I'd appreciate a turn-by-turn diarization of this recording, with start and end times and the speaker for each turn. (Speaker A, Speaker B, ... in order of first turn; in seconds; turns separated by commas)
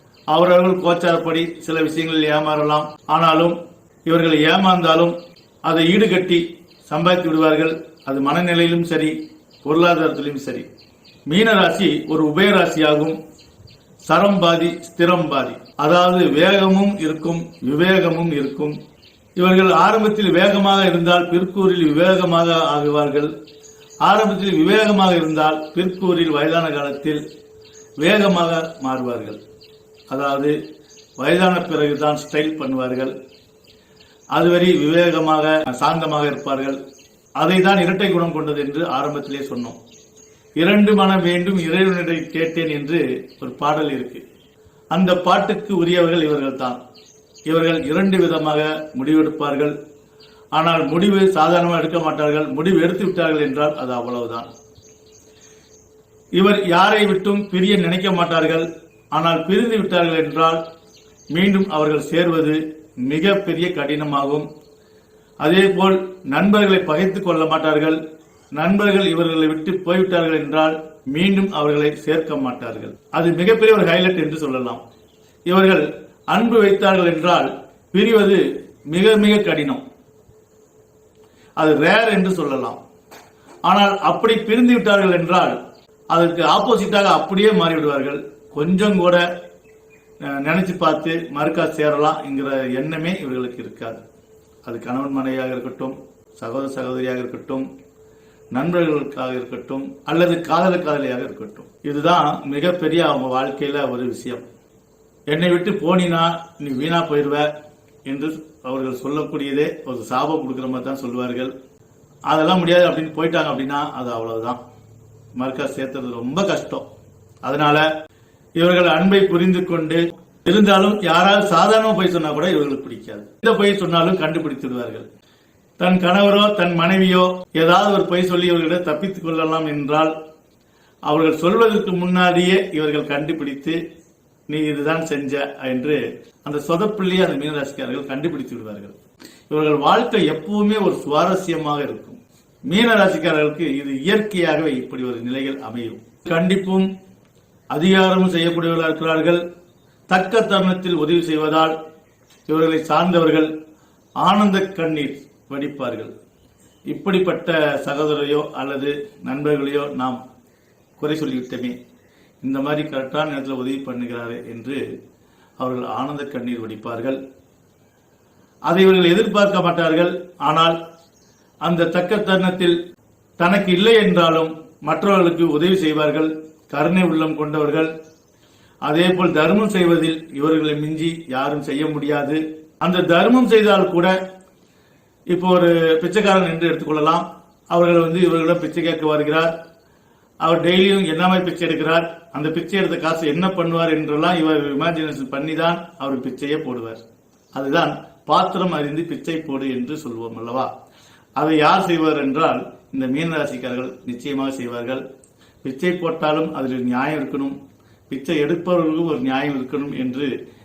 Speaker A: 0.3-10.7, Speaker A: 11.3-13.2, Speaker A: 14.1-18.8, Speaker A: 19.4-23.3, Speaker A: 24.0-27.2, Speaker A: 28.0-29.4, Speaker A: 30.1-30.6, Speaker A: 31.2-33.1, Speaker A: 34.3-36.8, Speaker A: 37.4-39.8, Speaker A: 40.6-44.2, Speaker A: 44.9-46.8, Speaker A: 47.5-49.7, Speaker A: 50.5-54.5, Speaker A: 56.4-60.6, Speaker A: 61.3-64.5, Speaker A: 65.4-68.0, Speaker A: 68.5-74.8, Speaker A: 75.5-79.8, Speaker A: 81.6-82.8, Speaker A: 83.7-85.6, Speaker A: 86.1-89.2, Speaker A: 90.2-94.0, Speaker A: 94.7-97.7, Speaker A: 98.5-104.5, Speaker A: 105.3-107.5, Speaker A: 108.1-111.5, Speaker A: 112.3-114.6, Speaker A: 115.4-116.9, Speaker A: 117.4-117.9, Speaker A: 118.6-125.1, Speaker A: 125.8-130.1, Speaker A: 131.1-133.8, Speaker A: 134.5-138.9, Speaker A: 139.5-146.9, Speaker A: 147.7-149.4, Speaker A: 150.1-151.7, Speaker A: 152.5-153.5, Speaker A: 154.2-156.1, Speaker A: 156.9-160.2, Speaker A: 161.0-161.8, Speaker A: 162.4-164.8, Speaker A: 165.6-167.2, Speaker A: 168.7-170.8, Speaker A: 171.7-172.8, Speaker A: 173.4-177.9, Speaker A: 178.8-184.2, Speaker A: 185.3-189.5, Speaker A: 190.4-197.0, Speaker A: 197.5-200.7, Speaker A: 201.4-205.0, Speaker A: 205.6-207.6, Speaker A: 208.1-210.3